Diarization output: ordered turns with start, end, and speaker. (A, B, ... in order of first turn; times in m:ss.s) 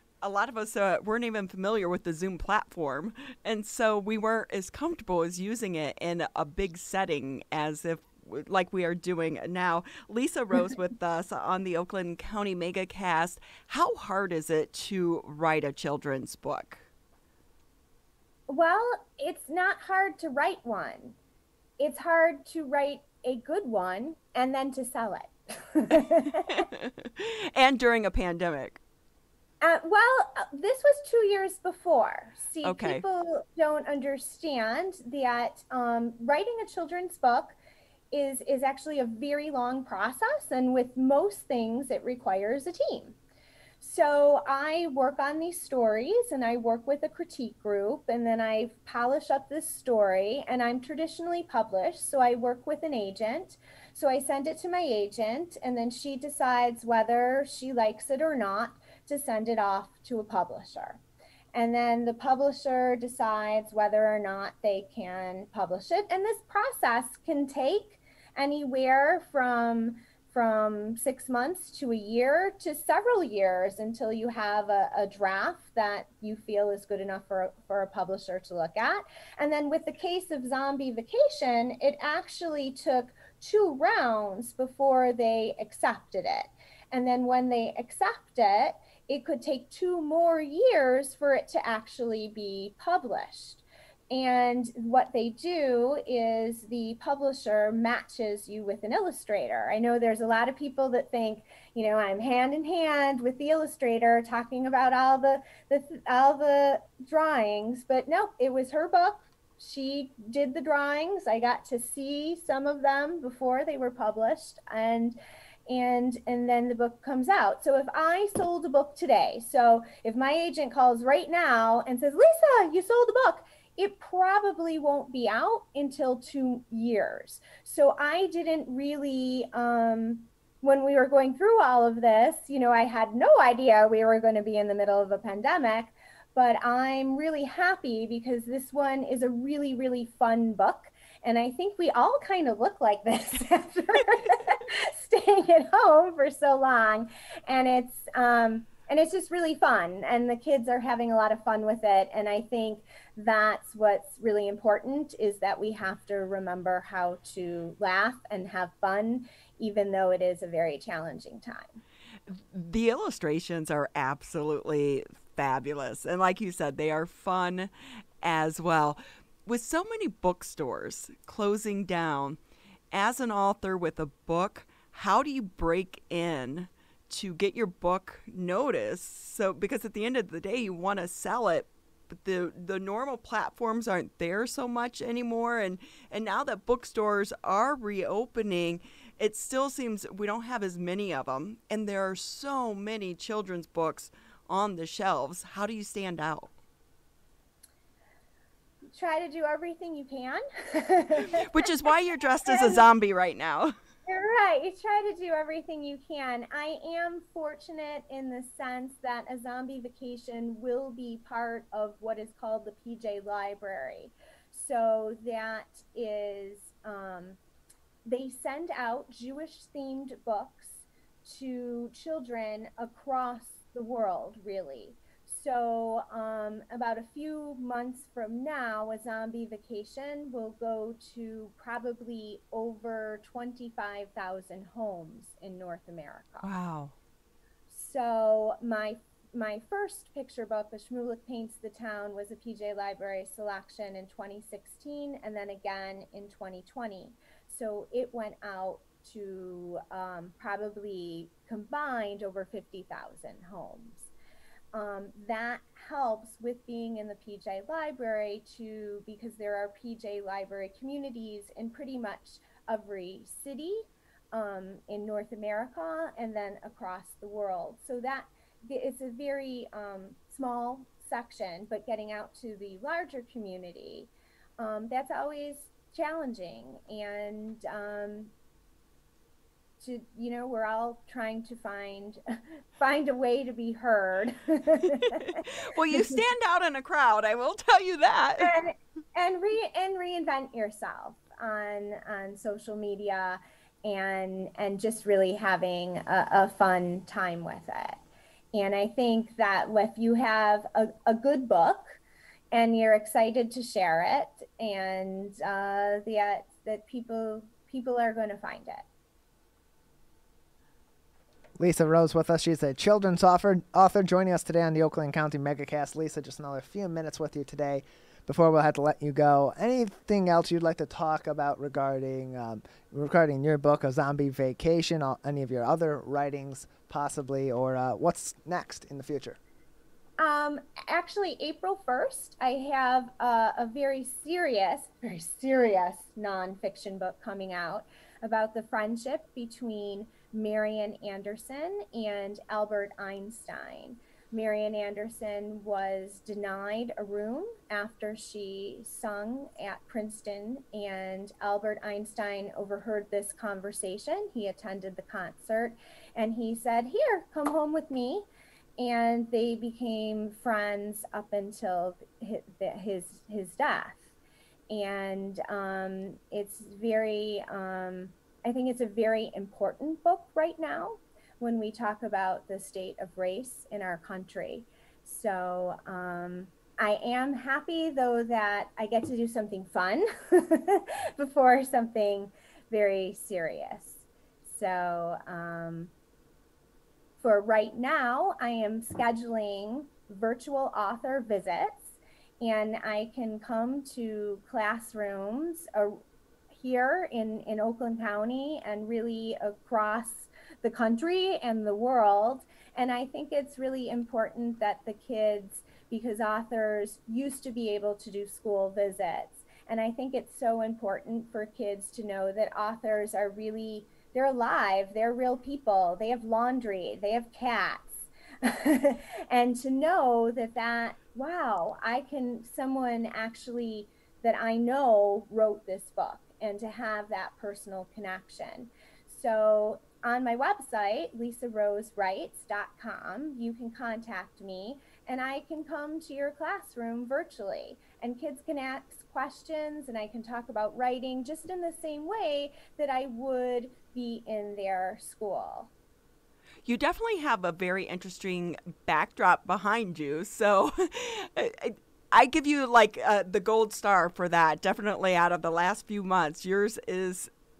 0:00.2-0:16.8 A
0:18.5-0:21.2 B
0:21.8-0:26.6 B
0:26.5-0:28.8 A
0:29.6-0:37.6 B
0:32.6-0:33.0 A
0:38.1-0:43.2 B
0:43.8-1:01.0 B
1:01.5-2:41.8 B
2:42.3-2:47.7 A
2:48.2-2:52.4 A
2:52.9-3:16.5 A
3:18.9-3:21.3 B
3:21.2-3:23.7 A
3:22.5-3:22.8 B
3:24.0-3:37.4 B
3:38.0-3:56.5 B
3:56.4-3:56.9 A
3:57.7-4:14.1 B
4:14.7-4:38.3 B
4:39.8-4:42.2 B
4:42.8-4:45.4 B
4:45.1-4:48.5 A
4:48.4-4:58.0 B
4:58.5-5:02.0 B
5:02.5-5:08.8 B
5:11.6-5:29.4 C
5:30.2-6:04.1 B
6:04.7-6:25.9 B
6:27.2-6:36.0 B
6:36.5-7:25.7 B
7:26.6-7:37.3 A